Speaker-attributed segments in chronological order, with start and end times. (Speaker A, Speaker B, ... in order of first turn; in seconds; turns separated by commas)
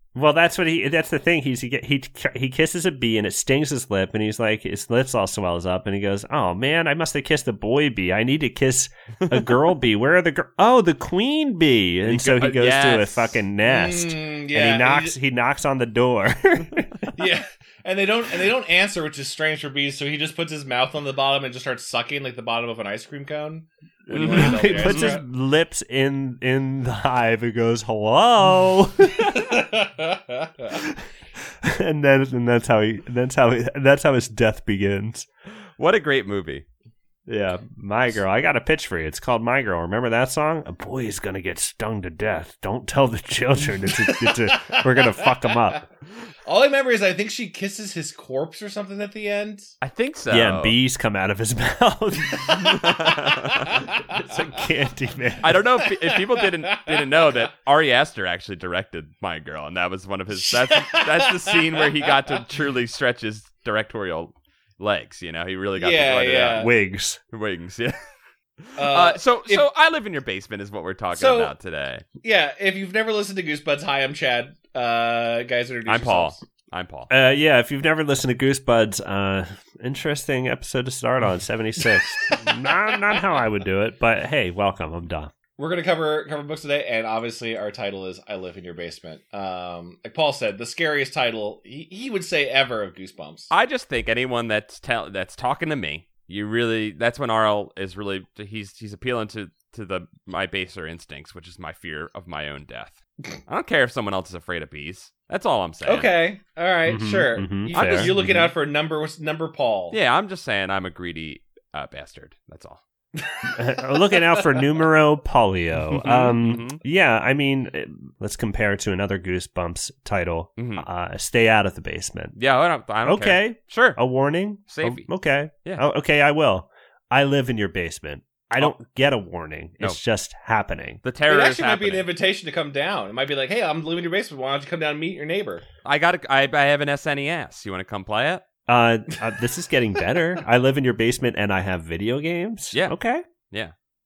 Speaker A: 0.1-17.1, Speaker B: 12.1-13.4, Speaker C: 13.6-15.2, Speaker C: 17.1-25.2, Speaker A: 24.1-29.6, Speaker B: 24.1-25.2, Speaker C: 29.3-30.8, Speaker A: 30.7-31.0, Speaker A: 31.6-35.3, Speaker B: 35.8-36.6, Speaker A: 37.3-45.8, Speaker C: 43.9-45.8, Speaker C: 46.4-49.7, Speaker B: 49.8-50.7, Speaker A: 50.3-53.1, Speaker B: 52.7-53.8, Speaker A: 53.7-55.6, Speaker C: 53.7-54.2, Speaker B: 55.4-66.7, Speaker C: 55.8-57.3, Speaker C: 60.4-62.1, Speaker C: 65.8-66.7, Speaker A: 66.5-67.2, Speaker B: 67.3-68.0, Speaker B: 68.6-72.0, Speaker C: 68.8-69.7, Speaker C: 71.1-71.5, Speaker C: 72.2-76.4, Speaker B: 75.9-77.1, Speaker A: 77.1-85.3, Speaker C: 85.6-93.5, Speaker B: 93.5-106.1, Speaker C: 105.8-110.0, Speaker A: 106.9-108.5, Speaker B: 107.7-108.1, Speaker B: 109.9-112.8, Speaker C: 113.2-114.7, Speaker A: 113.5-122.3, Speaker B: 115.9-116.8, Speaker B: 120.6-120.8, Speaker B: 122.3-124.0, Speaker A: 123.0-131.0, Speaker B: 124.7-125.1, Speaker B: 131.0-132.1, Speaker C: 131.3-135.6, Speaker B: 135.8-138.4, Speaker A: 138.7-143.2